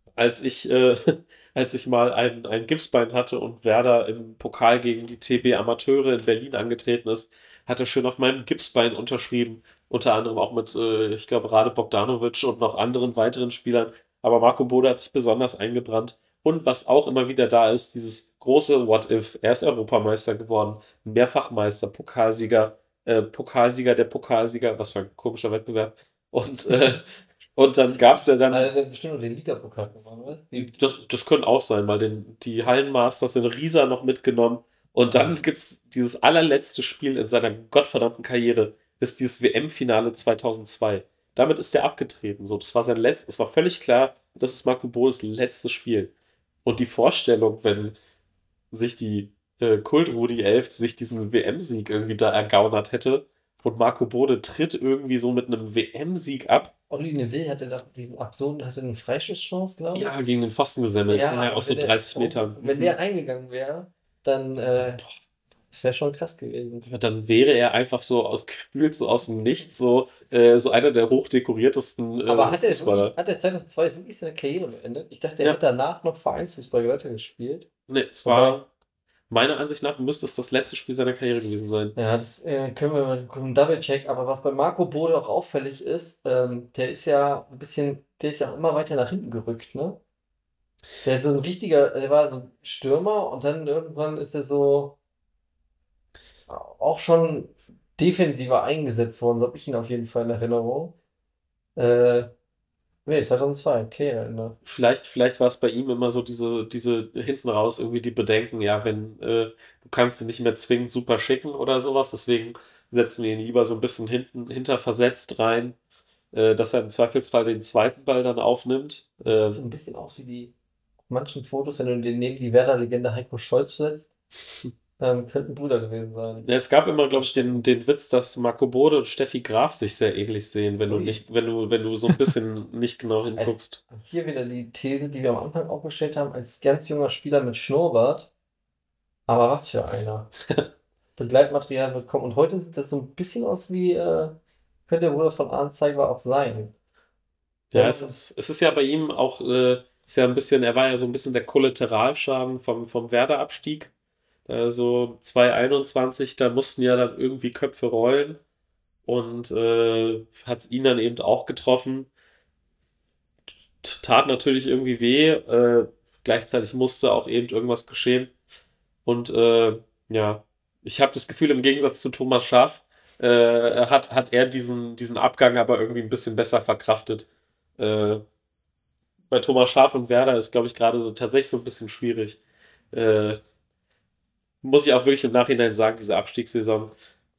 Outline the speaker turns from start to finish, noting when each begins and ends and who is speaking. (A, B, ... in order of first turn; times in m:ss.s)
0:00.2-0:28.7 A
0:28.5-0:30.8 B
0:30.6-0:46.1 A
0:35.1-0:35.4 B
0:46.6-0:48.0 A
0:48.7-0:56.7 A
0:56.9-1:00.1 B
0:59.9-1:02.9 A
1:01.1-1:05.0 B
1:05.7-1:06.9 B
1:06.8-1:13.1 A
1:12.3-1:17.7 B
1:17.9-1:18.7 A
1:18.2-1:18.6 B
1:19.3-1:22.0 A
1:22.0-1:30.0 B
1:31.0-1:35.0 B
1:36.5-1:41.0 B
1:41.8-1:42.3 B
1:43.1-1:44.6 B
1:44.6-1:55.8 A
1:56.3-1:59.6 A
1:59.2-2:00.5 B
2:01.1-2:04.1 B
2:05.0-2:06.5 B
2:06.4-2:13.8 A
2:07.1-2:07.7 B
2:10.9-2:11.2 B
2:13.4-2:18.3 B
2:19.3-2:20.3 B
2:21.2-2:24.4 B
2:24.9-2:26.7 B
2:27.7-2:33.9 A
2:27.7-2:28.1 B
2:34.5-2:38.4 A
2:39.0-2:42.1 A
2:43.8-2:48.3 A
2:49.0-2:57.3 A
2:57.8-2:58.2 A
2:59.3-3:02.4 A
3:02.9-3:03.4 A
3:04.6-3:06.9 A